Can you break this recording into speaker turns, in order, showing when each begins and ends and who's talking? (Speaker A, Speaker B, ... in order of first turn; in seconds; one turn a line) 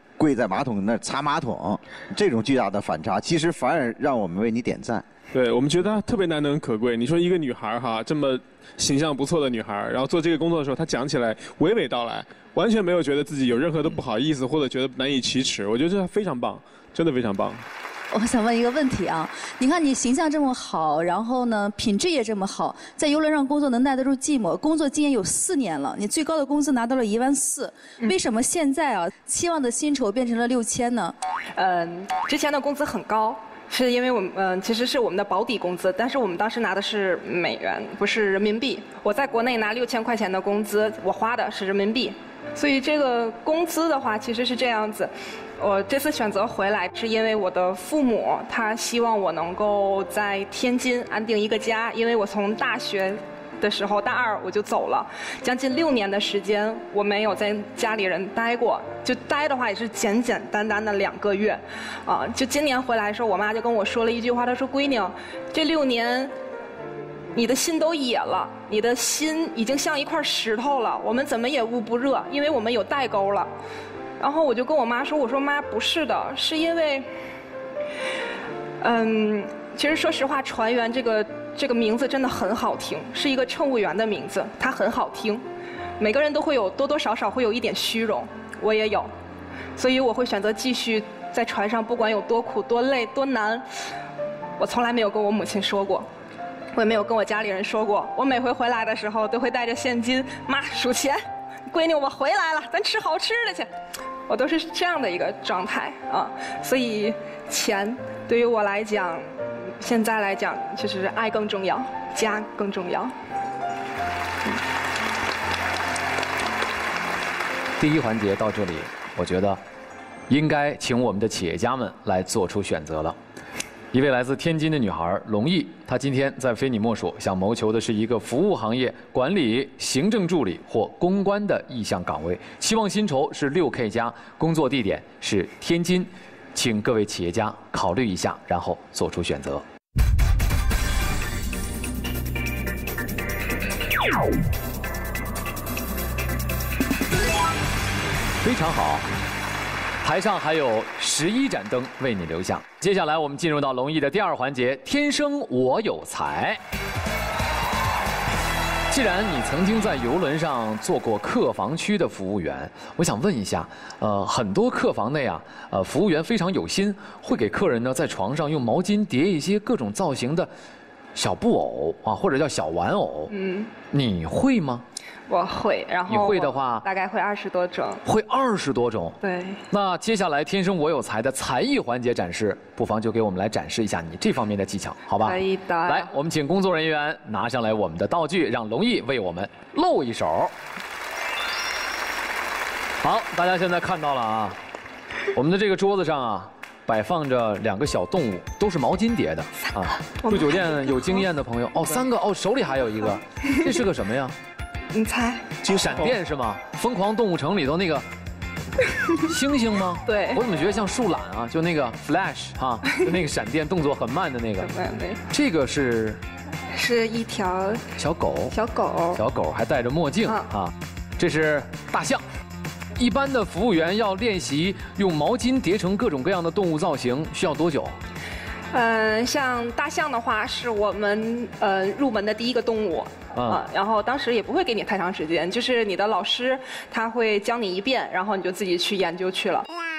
Speaker A: 0.2-5.0
Speaker B: 5.3-17.6
Speaker C: 18.1-31.1
Speaker D: 31.6-66.3
Speaker D: 67.3-73.5
Speaker D: 74.2-77.1
Speaker D: 78.8-85.4
Speaker D: 86.0-89.1
Speaker D: 89.8-93.7
Speaker D: 94.6-96.1
Speaker D: 96.7-103.7
Speaker D: 104.3-109.3
Speaker D: 109.8-113.1
Speaker E: 117.8-119.6
Speaker E: 120.3-123.2
Speaker E: 123.9-139.6
Speaker E: 148.4-149.1
Speaker E: 150.0-156.6
Speaker E: 158.9-170.5
Speaker E: 171.2-173.3
Speaker D: 173.3-173.7
Speaker E: 173.9-174.8
Speaker D: 175.3-178.0
Speaker E: 176.1-176.8
Speaker E: 178.1-179.2
Speaker D: 179.2-179.6
Speaker E: 179.7-190.5
Speaker D: 185.2-186.1
Speaker E: 193.0-194.6
Speaker E: 195.3-204.3
Speaker D: 200.2-201.2
Speaker D: 204.9-205.5
Speaker E: 205.6-208.1
Speaker E: 209.2-214.7
Speaker D: 210.1-210.4
Speaker D: 214.6-215.2
Speaker E: 215.3-216.2
Speaker D: 216.7-217.9
Speaker E: 218.0-218.6
Speaker D: 218.5-219.2
Speaker E: 219.1-222.2
Speaker E: 223.0-228.0
Speaker D: 228.7-239.7
Speaker E: 233.3-233.6